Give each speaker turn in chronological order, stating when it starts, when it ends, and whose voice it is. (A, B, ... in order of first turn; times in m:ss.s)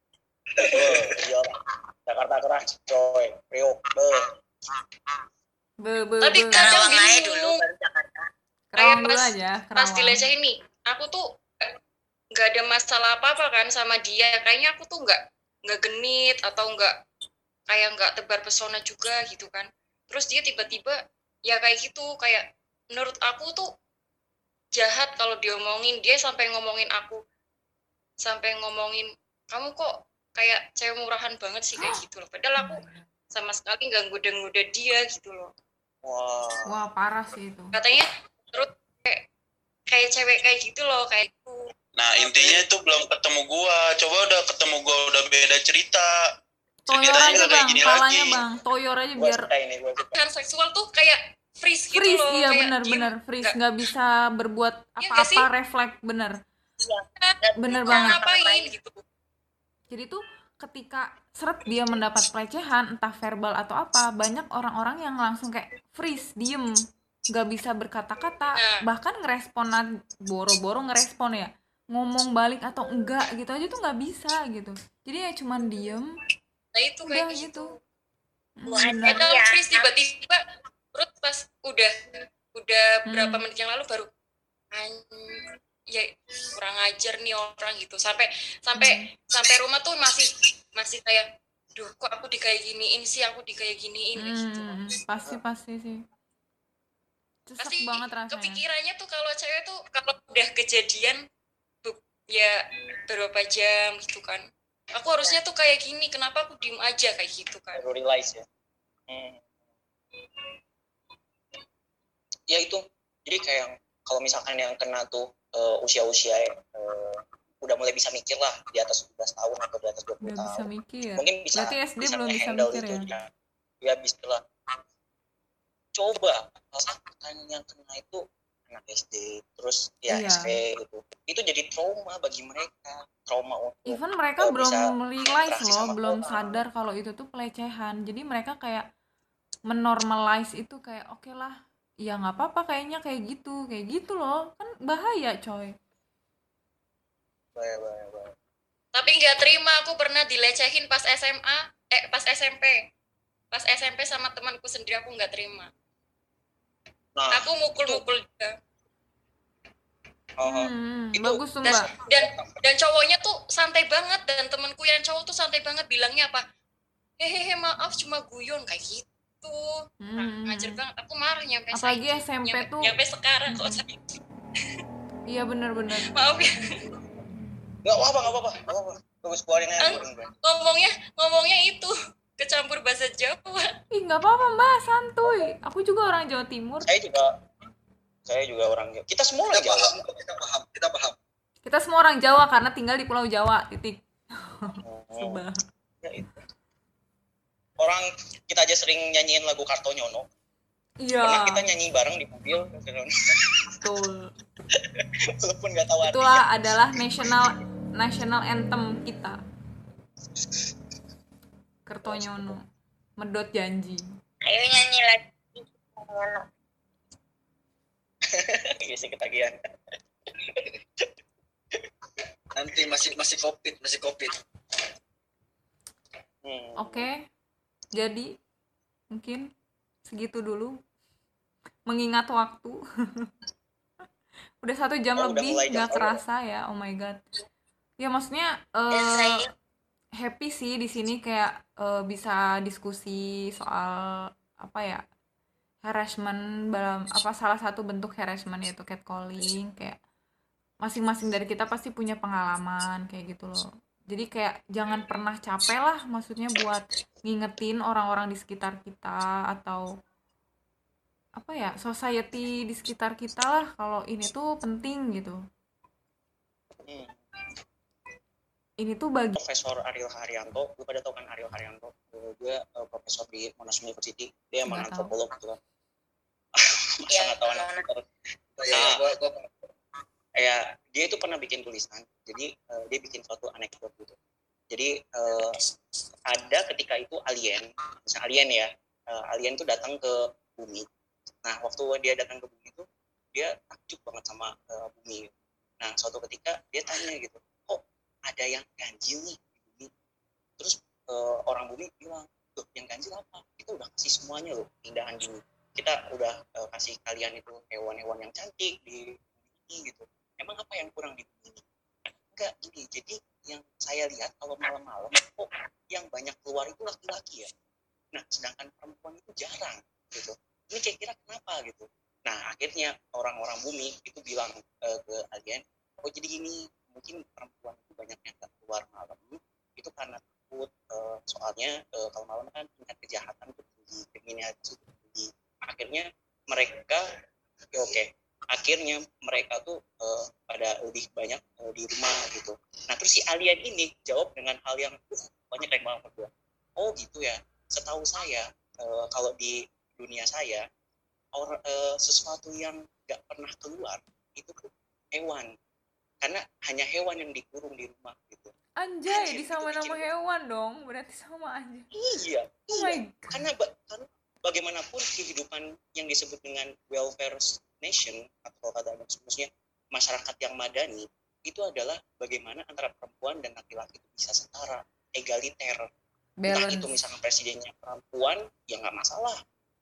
0:00.6-0:01.5 A
0:02.1-0:04.3 A
0:05.8-0:06.7 B
0:06.2-0:07.6 C
0:06.5-0:08.3 D
0:08.7-0:10.2 B
0:08.8-0:11.7 C
0:12.3-0:17.0 C
0:17.7-0:23.7 C
0:24.7-0:27.2 C
0:28.2-0:35.5 C
0:31.8-0:32.0 B
0:32.6-0:33.1 B
0:36.0-0:36.8 A
0:36.7-0:37.7 B
0:37.7-0:39.2 C
0:39.9-0:41.7 C
0:42.0-0:46.1 E
0:46.9-0:49.5 B
0:46.9-0:48.4 E
0:49.2-0:50.2 A
0:50.2-0:53.6 C
0:51.9-0:56.4 B
0:55.0-0:55.5 C
0:56.8-0:58.7 D
0:57.6-0:58.2 B
0:57.8-0:59.0 C
0:59.9-1:06.8 B
1:07.3-1:16.1 B
1:08.5-1:08.8 C
1:16.7-1:17.8 C
1:17.0-1:17.7 B
1:18.6-1:19.2 B
1:18.7-1:19.9 D
1:19.0-1:20.4 C
1:20.9-1:21.9 C
1:22.5-1:24.1 C
1:23.1-1:23.4 B
1:24.7-1:34.9 C
1:28.8-1:29.1 B
1:34.2-1:36.0 B
1:37.5-1:38.6 B
1:37.6-1:41.2 C
1:41.8-1:47.8 C
1:47.8-1:48.4 A
1:49.1-1:49.4 A
1:52.5-2:00.7 A
2:00.2-2:03.1 B
2:01.2-2:03.3 A
2:03.8-2:04.4 A
2:05.9-2:16.6 A
2:10.1-2:10.5 B
2:13.9-2:18.8 B
2:19.7-2:25.7 B
2:27.6-2:28.3 A
2:28.9-2:32.8 C
2:33.5-2:35.7 C
2:37.2-2:38.0 A
2:37.3-2:38.5 C
2:40.4-2:42.6 A
2:40.4-2:41.9 B
2:41.6-2:46.4 C
2:47.2-2:54.0 C
2:50.0-2:50.8 B
2:51.7-2:52.9 B
2:53.5-2:53.8 B
2:55.3-2:56.1 B
2:56.0-2:56.8 C
2:57.8-3:00.3 A
2:59.8-3:03.7 C
3:03.9-3:06.9 B
3:06.8-3:07.3 A
3:08.3-3:10.0 A
3:09.5-3:11.2 F
3:11.6-3:15.6 B
3:14.8-3:15.4 A
3:16.0-3:16.4 A
3:17.8-3:20.3 A
3:21.0-3:21.6 B
3:21.2-3:23.8 A
3:23.8-3:24.3 B
3:24.8-3:26.4 A
3:26.1-3:29.4 B
3:31.9-3:32.6 B
3:32.1-3:32.6 A
3:33.2-3:34.0 B
3:34.4-3:36.4 D
3:38.3-3:39.5 A
3:40.4-3:41.1 A
3:42.6-3:44.4 F
3:46.4-3:47.1 A
3:46.8-3:47.3 B
3:48.0-3:48.3 B
3:49.1-3:49.5 B
3:50.1-3:50.8 B
3:51.9-3:53.3 B
3:54.6-3:57.2 B
3:55.2-3:56.2 A
3:58.0-3:59.4 B
3:58.9-3:59.5 D
4:00.2-4:05.0 B
4:05.8-4:10.0 B
4:10.8-4:19.9 B
4:21.4-4:25.4 B
4:26.9-4:27.2 A
4:28.8-4:29.4 B
4:29.4-4:35.6 A
4:34.7-4:35.1 B
4:36.6-4:38.0 A
4:37.1-4:37.8 D
4:38.6-4:39.4 F
4:38.7-4:39.0 A
4:40.4-4:44.2 A
4:44.7-4:45.6 A
4:46.3-4:50.9 A
4:51.4-4:55.3 A
4:55.8-4:59.9 A
5:00.6-5:11.6 A
5:12.3-5:17.5 A
5:18.1-5:37.0 A
5:37.7-5:50.6 A
5:51.3-5:55.5 A
5:56.2-5:58.5 A
5:58.8-6:01.9 B
5:59.1-6:00.1 A
6:01.9-6:15.9 A
6:02.7-6:03.5 B
6:16.4-6:17.0 B
6:16.5-6:19.4 A